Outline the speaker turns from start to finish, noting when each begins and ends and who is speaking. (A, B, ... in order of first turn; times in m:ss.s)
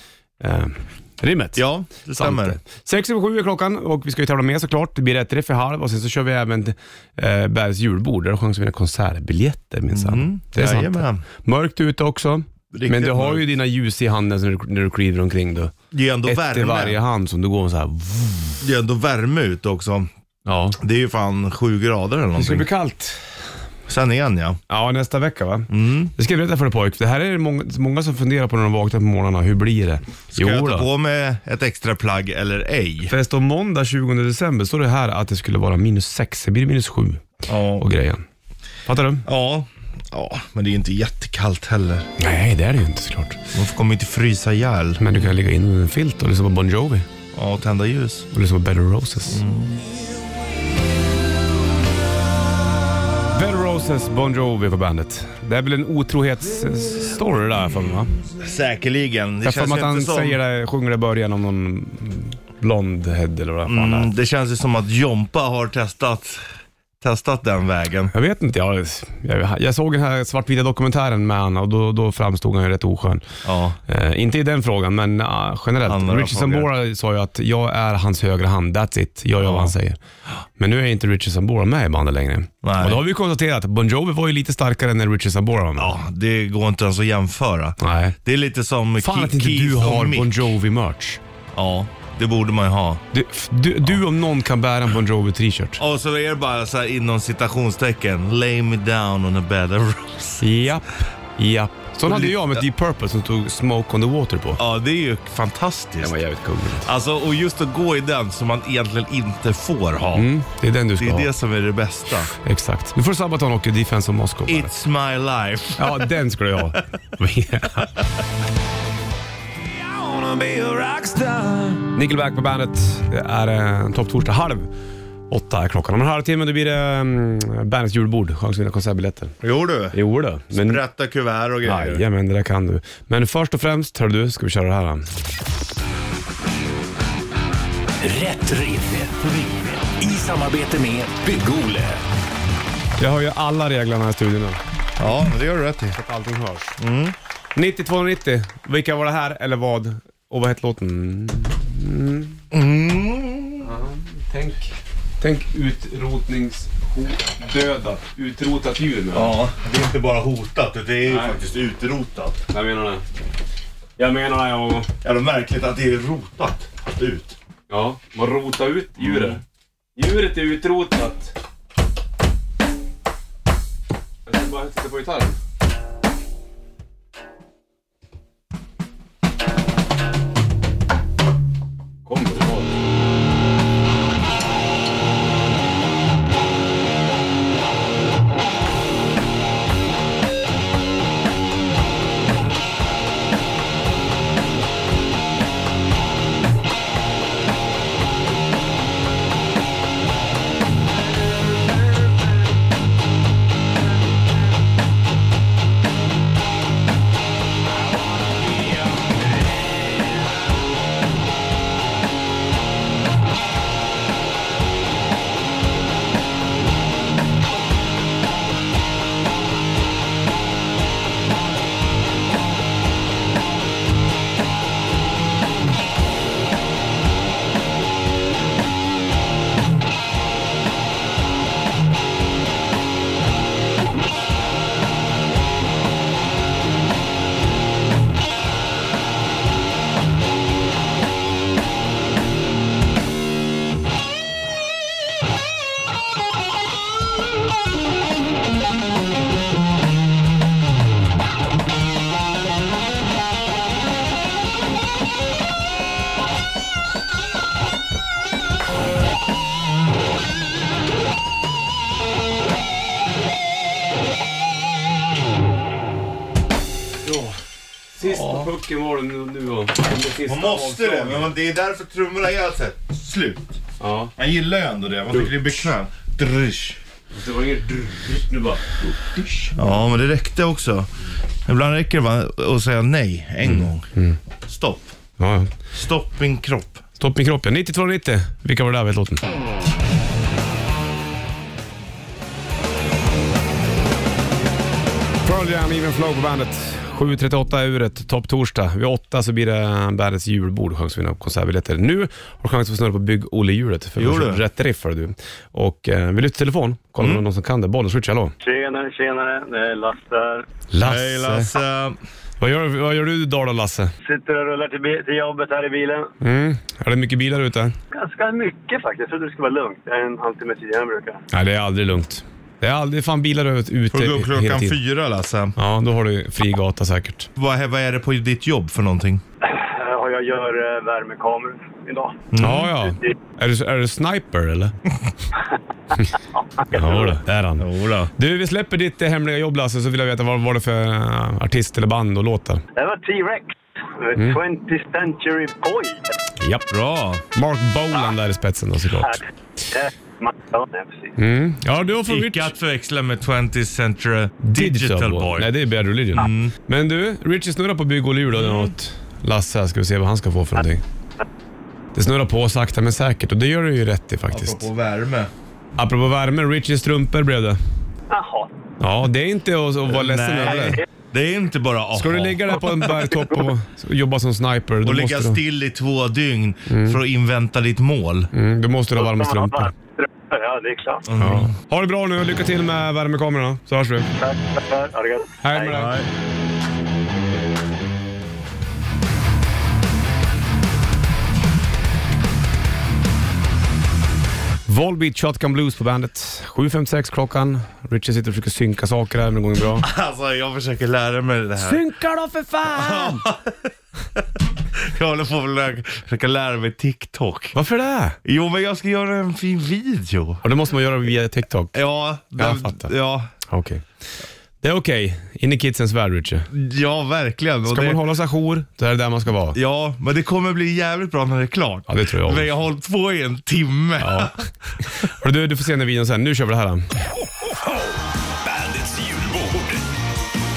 0:00.4-0:15.7 A
0:01.6-0:02.6 B
0:09.9-0:11.2 B
0:12.7-0:13.4 B
0:15.9-0:17.0 B
0:16.2-0:18.6 A
0:18.6-0:20.1 B
0:20.4-0:20.8 A
0:20.8-0:22.7 B
0:22.4-0:23.4 A
0:23.9-0:24.6 B
0:24.7-0:30.9 A
0:25.7-0:26.1 B
0:30.3-0:33.1 B
0:33.1-0:38.2 A
0:37.5-0:37.9 B
0:38.8-0:39.2 A
0:39.2-0:42.1 B
0:42.2-0:43.4 A
0:43.5-0:45.0 B
0:45.0-0:47.1 A
0:47.3-0:48.3 B
0:48.3-0:49.4 A
0:49.3-0:49.8 B
0:53.3-0:58.1 A
0:58.4-1:00.4 B
0:59.4-1:04.1 A
1:03.7-1:06.4 B
1:07.0-1:08.1 B
1:08.1-1:13.2 A
1:13.4-1:13.8 B
1:13.9-1:20.0 A
1:15.8-1:16.7 B
1:19.4-1:19.7 B
1:20.6-1:26.0 A
1:22.6-1:23.0 B
1:25.8-1:30.5 B
1:27.8-1:28.2 A
1:29.0-1:31.2 A
1:31.5-1:33.0 B
1:33.1-1:35.8 A
1:35.8-1:40.7 B
1:40.4-1:44.6 A
1:42.0-1:42.6 B
1:44.6-1:46.1 B
1:46.0-1:46.9 A
1:46.8-1:50.3 B
1:50.2-1:51.3 A
1:51.0-1:52.3 B
1:52.3-1:54.7 A
1:54.5-1:56.1 B
1:55.8-1:57.9 A
1:59.8-2:04.7 A
2:05.3-2:09.3 A
2:09.4-2:10.0 B
2:09.9-2:10.8 A
2:10.5-2:12.0 B
2:11.6-2:15.1 A
2:18.0-2:22.0 C
2:23.0-2:24.6 A
2:25.0-2:26.0 B
2:25.9-2:26.8 A
2:26.8-2:27.2 B
2:27.6-2:32.4 A
2:32.5-2:33.7 B
2:33.6-2:39.4 A
2:39.1-2:42.4 B
2:41.0-2:41.4 A
2:42.5-2:43.0 A
2:44.0-2:44.9 A
2:45.0-2:47.4 B
2:47.7-2:49.4 A
2:49.0-2:49.4 B
2:50.0-2:51.3 A
2:54.2-2:55.4 A
3:02.0-3:02.7 A
4:27.0-4:27.4 A
4:27.9-4:31.3 A
4:28.0-4:28.5 B
4:30.2-4:33.6 B
4:33.8-4:34.1 A
4:34.2-4:36.8 B
4:35.1-4:35.4 A
4:37.1-4:39.5 A
4:39.6-4:40.9 B
4:41.4-4:43.9 B
4:43.4-4:44.2 A
4:44.4-4:44.9 B
4:45.2-4:45.5 A
4:45.7-4:46.8 B
4:47.0-4:49.2 A
4:55.2-5:08.3 A
5:04.0-5:04.4 B
5:07.0-5:07.2 B
5:08.4-5:10.4 D
5:10.7-5:11.5 A
5:10.8-5:12.0 B
5:12.4-5:13.9 A
5:14.0-5:16.1 D
5:16.2-5:17.7 A
5:17.9-5:21.2 D
5:21.3-5:24.8 A
5:23.9-5:25.6 B
5:25.6-5:27.3 A
5:27.4-5:29.2 B
5:29.4-5:32.2 D
5:32.3-5:32.7 B
5:32.4-5:34.7 A
5:36.6-5:37.1 D
5:36.7-5:42.6 A
5:37.6-5:38.1 B
5:42.8-5:46.0 D
5:44.1-5:44.4 A
5:46.4-5:46.7 A
5:46.7-5:47.2 B
5:47.3-5:49.2 A
5:49.0-5:51.1 D
5:51.2-5:52.5 A
5:52.0-5:55.5 B
5:54.4-6:00.8 A
5:56.1-5:56.5 B
6:01.9-6:04.7 A
6:04.3-6:05.3 B
6:05.8-6:07.6 A
6:08.1-6:08.5 D
6:08.8-6:10.8 A
6:09.9-6:12.9 B
6:11.9-6:15.4 A
6:14.8-6:18.3 B
6:16.7-6:17.0 A
6:18.3-6:19.7 A
6:19.0-6:21.0 D
6:21.1-6:21.5 B
6:21.2-6:24.1 A
6:24.2-6:25.7 D
6:25.4-6:26.0 A
6:25.7-6:26.1 B
6:34.7-6:39.9 A
6:39.8-6:41.8 B
6:41.6-6:43.2 A
6:42.7-6:43.6 B
6:44.8-6:47.6 B
6:47.5-6:48.2 A
6:48.2-6:50.4 B
6:50.4-6:51.7 A
6:51.7-6:53.3 B
6:52.4-6:52.9 A
6:53.4-6:53.8 A
6:54.6-6:56.5 A
6:56.5-6:58.0 B
6:57.6-6:59.6 A
6:59.5-7:04.4 B
7:01.9-7:02.5 A
7:04.0-7:04.3 A
7:05.0-7:06.8 A
7:08.4-7:09.8 C